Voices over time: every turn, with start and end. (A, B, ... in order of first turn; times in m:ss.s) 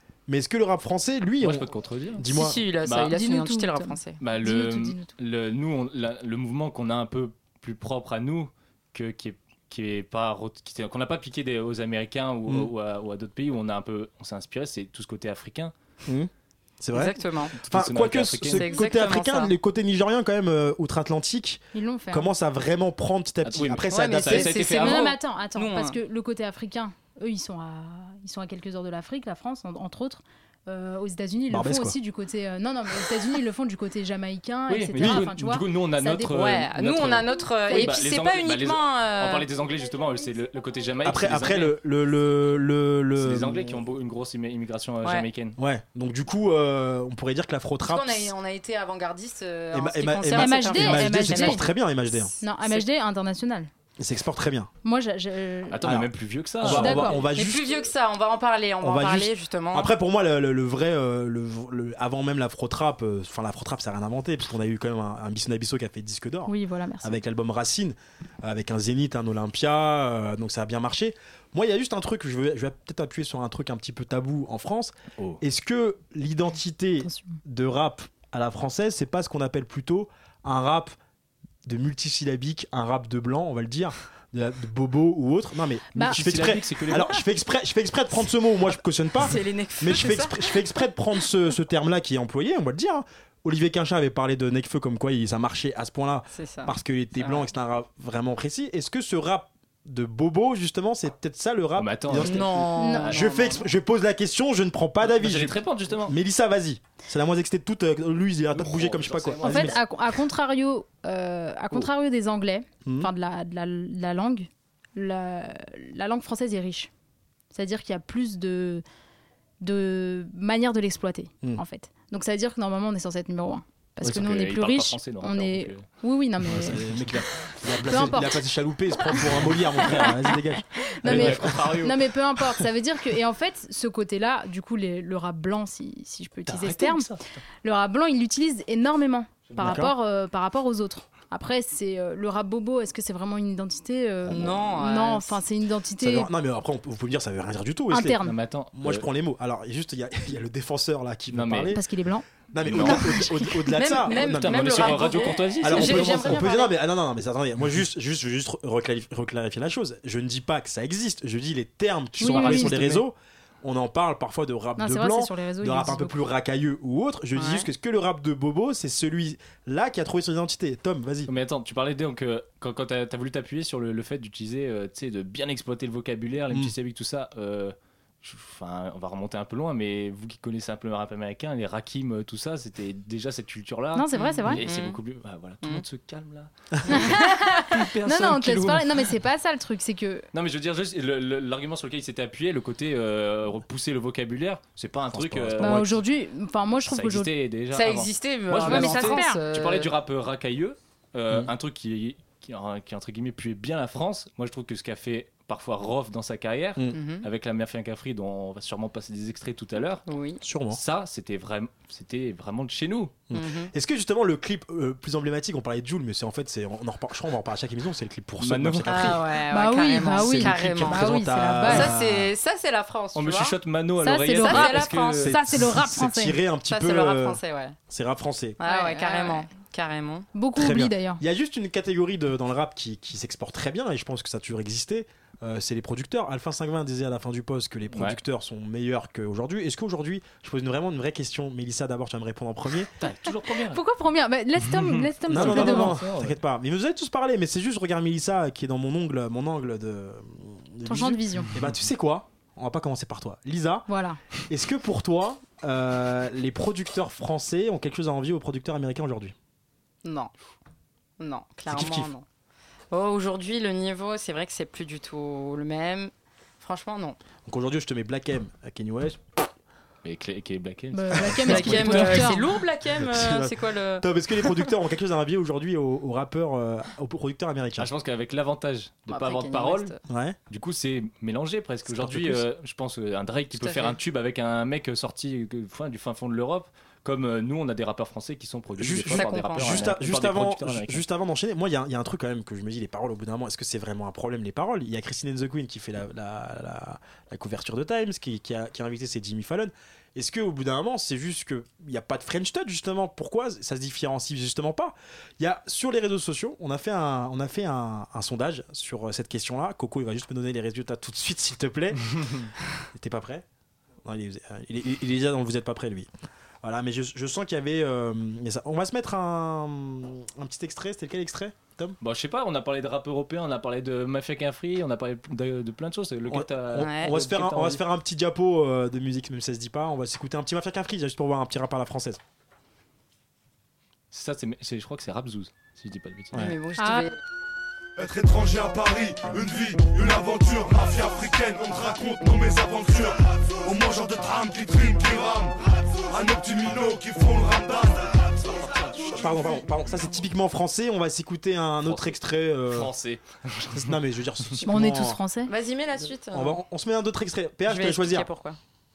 0:00.3-0:02.6 A
0:01.4-0:02.3 B
0:02.3-0:04.2 C
0:02.8-0:03.1 B
0:03.1-0:05.1 D
0:04.2-0:15.7 B
0:16.8-0:24.5 A
0:16.9-0:17.5 C
0:17.6-0:18.7 B
0:18.6-0:19.5 C
0:21.7-0:22.3 D
0:23.4-0:25.1 B
0:23.9-0:26.0 C
0:24.5-0:36.4 D
0:31.5-0:32.0 A
0:34.7-0:41.8 B
0:35.0-0:35.3 A
0:36.2-0:39.5 C
0:37.7-0:38.0 D
0:41.0-0:43.8 A
0:43.2-0:45.6 B
0:45.6-0:48.3 A
0:47.8-0:51.7 C
0:49.7-0:52.3 A
0:50.3-0:51.6 D
0:52.4-0:53.7 D
0:54.0-0:54.7 A
0:54.8-0:55.9 D
0:55.7-0:57.2 B
0:55.8-0:57.8 A
0:56.6-0:57.2 D
0:57.3-0:59.9 C
0:58.8-1:20.9 A
1:06.5-1:07.2 D
1:17.0-1:17.4 D
1:21.6-1:49.8 A
1:26.0-1:27.2 B
1:29.2-1:30.6 C
1:36.3-1:37.4 C
1:41.8-1:42.7 B
1:42.2-1:43.7 C
1:42.8-1:43.2 D
1:45.0-1:46.2 B
1:48.5-1:49.8 B
1:49.4-1:56.9 D
1:52.8-1:53.1 A
1:57.5-1:58.8 D
1:59.6-2:06.8 D
2:04.0-2:05.8 B
2:06.4-2:11.7 A
2:07.8-2:08.4 D
2:09.8-2:10.3 D
2:11.0-2:17.1 D
2:11.0-2:12.0 B
2:16.5-2:17.4 B
2:17.6-2:26.3 D
2:19.5-2:19.8 B
2:19.6-2:19.9 A
2:24.3-2:25.4 C
2:26.0-2:28.2 A
2:27.9-2:28.4 D
2:28.2-2:29.0 B
2:28.7-2:31.8 A
2:31.3-2:31.8 B
2:31.7-2:32.2 D
2:32.5-2:51.3 A
2:32.6-2:33.1 B
2:32.9-2:33.5 D
2:33.7-2:36.7 C
2:34.1-2:36.4 B
2:42.2-2:42.8 D
2:42.2-2:43.0 B
2:44.8-2:46.2 D
2:47.3-2:47.7 C
2:51.3-3:09.1 B
3:03.9-3:04.6 D
3:04.1-3:05.0 C
3:06.9-3:10.2 D
3:10.3-3:16.0 B
3:15.1-3:15.8 A
3:15.6-3:17.3 D
3:16.9-3:30.0 B
3:17.7-3:19.9 C
3:18.6-3:19.4 D
3:26.9-3:27.2 C
3:30.1-3:30.4 C
3:30.4-3:30.8 A
3:30.7-3:33.2 B
3:33.3-3:39.2 A
3:33.3-3:33.7 C
3:38.4-3:39.2 B
3:38.8-3:43.5 C
3:39.5-3:41.9 D
3:40.2-3:42.3 A
3:43.1-3:45.3 B
3:44.0-3:46.4 D
3:44.3-3:45.3 C
3:45.2-3:48.6 A
3:46.7-3:47.8 C
3:48.6-3:50.3 C
3:48.6-3:49.5 D
3:50.3-3:51.2 D
3:50.6-4:02.9 A
3:57.9-3:58.2 B
4:03.0-4:03.8 B
4:03.7-4:06.0 D
4:04.6-4:06.4 B
4:05.3-4:13.8 A
4:10.8-4:11.5 D
4:13.9-4:14.2 D
4:14.5-4:19.3 A
4:20.0-4:20.3 C
4:21.2-4:22.2 C
4:21.7-4:22.1 A
4:22.9-4:27.2 C
4:27.4-4:29.4 A
4:30.0-4:32.3 B
4:30.9-4:32.4 D
4:31.4-4:32.1 A
4:31.4-4:34.0 C
4:33.0-4:37.9 A
4:37.8-4:39.9 B
4:39.1-4:40.0 C
4:40.1-4:40.4 A
4:40.5-4:51.0 B
4:41.9-4:42.4 A
4:43.6-4:44.0 C
4:48.8-5:12.0 A
4:49.1-4:49.9 C
5:12.9-5:13.4 A
5:14.0-5:16.1 A
5:16.6-5:22.0 A
5:22.0-5:27.8 B
5:26.3-5:32.2 A
5:26.8-5:27.1 C
5:34.1-5:36.4 B
5:36.3-5:37.2 C
5:36.8-5:37.1 D
5:38.0-5:40.4 E
5:41.6-5:42.8 E
5:43.7-5:44.0 E
5:49.0-5:52.9 A
5:51.8-5:53.9 B
5:53.7-5:55.2 A
5:54.6-5:55.5 D
5:55.5-5:56.6 C
5:56.3-5:58.3 A
5:57.6-5:58.6 C